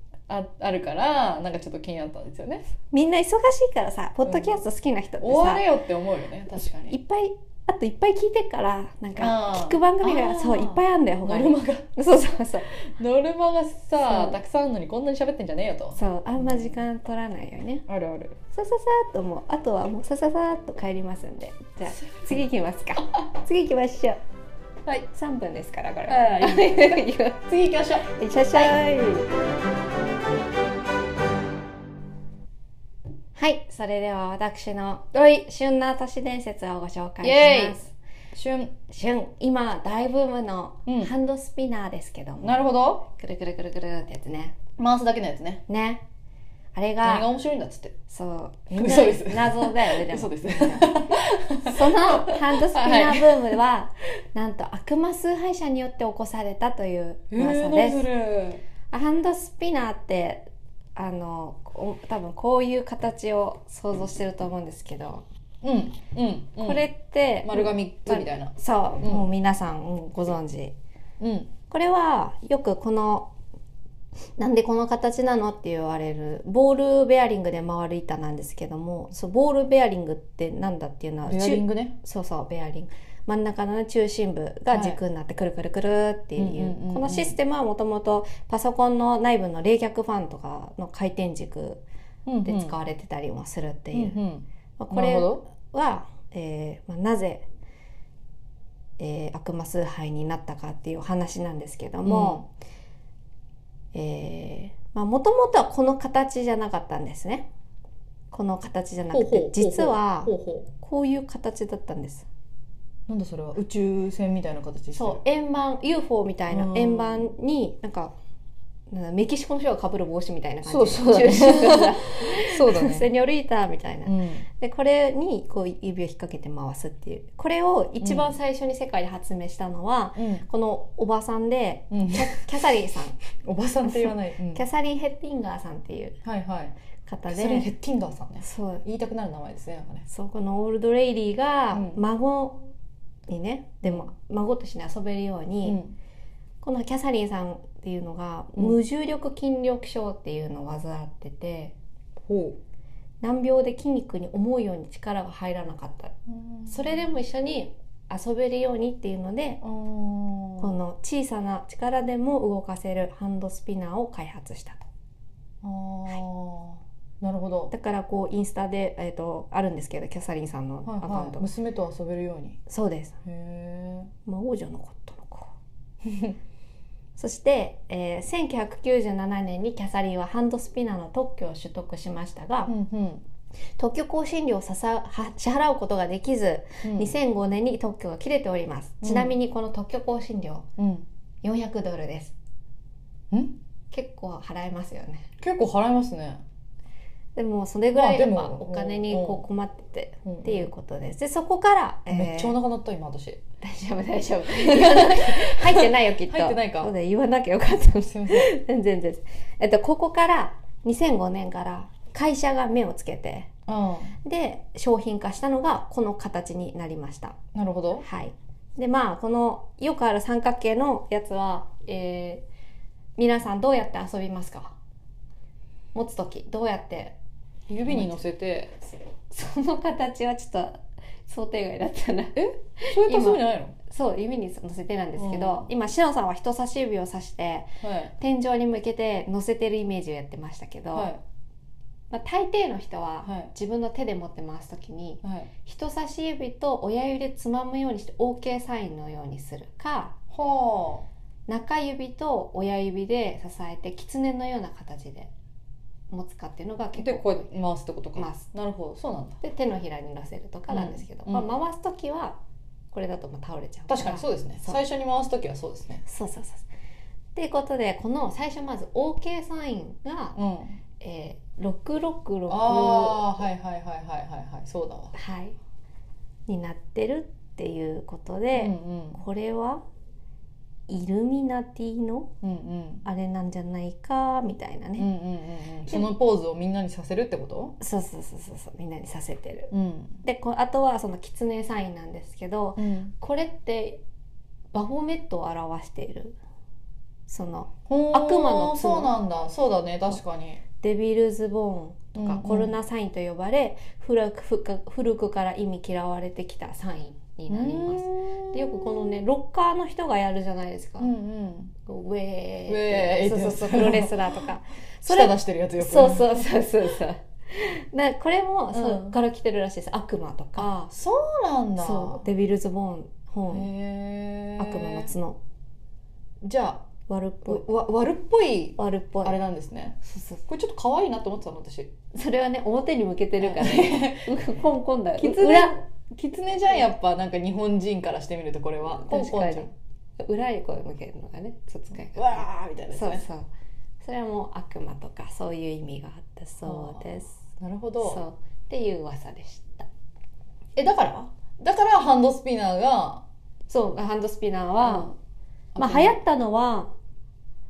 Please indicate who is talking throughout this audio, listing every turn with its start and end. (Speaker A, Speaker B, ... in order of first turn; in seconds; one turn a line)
Speaker A: 0.3-2.6
Speaker B: 2.9-5.6
Speaker A: 4.2-4.6
Speaker A: 5.2-7.0
Speaker B: 6.9-12.7
Speaker A: 9.2-11.8
Speaker A: 12.8-16.8
Speaker B: 14.0-14.4
Speaker B: 15.9-17.9
Speaker A: 17.9-18.4
Speaker B: 18.5-24.2
Speaker B: 25.1-27.4
Speaker A: 26.1-28.8
Speaker B: 28.1-29.3
Speaker B: 33.4-37.9
Speaker A: 35.1-35.5
Speaker A: 37.2-37.8
Speaker A: 38.3-38.8
Speaker B: 38.9-44.5
Speaker A: 40.9-41.1
Speaker A: 42.4-43.0
Speaker A: 44.8-45.6
Speaker B: 45.7-46.0
Speaker B: 46.7-47.3
Speaker A: 47.0-47.9
Speaker B: 48.1-51.0
Speaker A: 48.7-53.5
Speaker B: 51.6-58.0
Speaker A: 57.3-58.6
Speaker B: 58.9-65.2
Speaker A: 65.6-66.8
Speaker B: 66.6-70.7
Speaker A: 67.4-69.2
Speaker A: 71.2-71.5
Speaker B: 71.7-73.3
Speaker B: 74.4-91.8
Speaker A: 81.2-81.9
Speaker A: 84.7-85.0
Speaker A: 86.4-87.4
Speaker A: 92.2-92.7
Speaker B: 92.4-94.2
Speaker A: 93.9-95.4
Speaker B: 94.8-97.4
Speaker B: 99.0-102.5
Speaker A: 102.0-102.4
Speaker B: 103.9-107.5
Speaker B: 108.3-112.3
Speaker A: 109.1-110.7
Speaker A: 113.1-115.2
Speaker B: 114.9-118.1
Speaker A: 116.5-117.3
Speaker B: 118.9-133.2
Speaker A: 120.7-123.0
Speaker A: 124.0-124.5
Speaker A: 128.0-128.3
Speaker A: 130.2-130.4
Speaker A: 131.9-132.4
Speaker A: 133.4-134.6
Speaker B: 133.8-136.2
Speaker A: 136.2-136.7
Speaker B: 137.1-137.7
Speaker A: 137.3-140.1
Speaker B: 138.4-138.8
Speaker B: 140.1-142.6
Speaker A: 141.7-142.0
Speaker B: 143.3-145.8
Speaker A: 145.6-145.9
Speaker B: 146.6-151.7
Speaker A: 152.2-152.6
Speaker B: 153.2-156.1
Speaker A: 156.3-157.0
Speaker B: 156.7-159.6
Speaker A: 159.6-160.7
Speaker B: 160.6-164.9
Speaker A: 165.6-167.7
Speaker B: 167.7-171.5
Speaker A: 170.8-172.6
Speaker B: 172.7-173.2
Speaker A: 173.2-174.1
Speaker B: 174.2-175.5
Speaker A: 176.1-176.3
Speaker B: 177.2-182.7
Speaker A: 182.7-183.2
Speaker B: 183.8-190.7
Speaker A: 186.8-187.1
Speaker A: 189.0-189.3
Speaker A: 190.8-191.1
Speaker B: 191.4-192.3
Speaker A: 193.3-193.6
Speaker B: 193.9-195.3
Speaker A: 195.4-196.4
Speaker B: 197.3-202.6
Speaker A: 197.9-199.4
Speaker A: 200.2-200.7
Speaker A: 202.1-203.4
Speaker B: 203.6-213.5
Speaker A: 204.5-206.9
Speaker A: 208.1-208.5
Speaker A: 213.7-214.1
Speaker B: 214.2-217.3
Speaker A: 217.5-218.0
Speaker B: 218.0-222.4
Speaker B: 223.2-224.7
Speaker B: 225.9-227.1
Speaker A: 227.7-228.8
Speaker B: 227.8-228.2
Speaker B: 229.3-241.1
Speaker A: 232.3-233.7
Speaker A: 235.2-235.7
Speaker A: 237.8-238.1
Speaker A: 240.9-241.2
Speaker B: 242.1-250.1
Speaker A: 245.2-245.5
Speaker A: 250.3-251.1
Speaker B: 251.5-255.3
Speaker B: 256.1-257.4
Speaker A: 257.0-259.4
Speaker B: 258.2-258.4
Speaker B: 259.4-262.4
Speaker A: 260.7-261.5
Speaker B: 262.9-264.8
Speaker A: 263.9-266.0
Speaker B: 266.1-266.6
Speaker B: 267.3-270.4
Speaker A: 270.3-270.8
Speaker B: 271.0-273.4
Speaker A: 272.5-275.1
Speaker B: 275.1-275.6
Speaker B: 276.5-279.8
Speaker A: 278.5-279.2
Speaker B: 280.9-282.3
Speaker A: 282.4-283.1
Speaker B: 283.0-285.1
Speaker A: 285.0-287.8
Speaker B: 287.8-289.7
Speaker A: 289.7-290.2
Speaker B: 290.2-294.0
Speaker A: 292.8-293.1
Speaker B: 294.7-296.4
Speaker B: 297.3-299.1
Speaker A: 297.9-300.6
Speaker B: 300.8-311.1
Speaker A: 302.1-302.7
Speaker A: 307.5-308.9
Speaker A: 311.0-311.7
Speaker B: 311.8-320.9
Speaker A: 312.7-314.2
Speaker A: 315.1-316.5
Speaker A: 318.7-319.2
Speaker A: 320.6-322.2
Speaker B: 321.8-323.7
Speaker A: 323.5-325.1
Speaker B: 324.6-325.4
Speaker A: 326.4-326.9
Speaker B: 327.1-327.6
Speaker A: 327.5-331.9
Speaker B: 328.8-329.4
Speaker B: 330.0-330.4
Speaker B: 332.1-335.8
Speaker A: 333.4-334.3
Speaker A: 335.2-339.7
Speaker B: 339.0-343.5
Speaker A: 342.1-343.2
Speaker B: 344.0-347.4
Speaker A: 346.6-348.2
Speaker B: 348.0-349.9
Speaker A: 350.8-353.2
Speaker B: 353.7-355.1
Speaker A: 354.8-355.1
Speaker A: 355.7-356.2
Speaker B: 355.8-356.9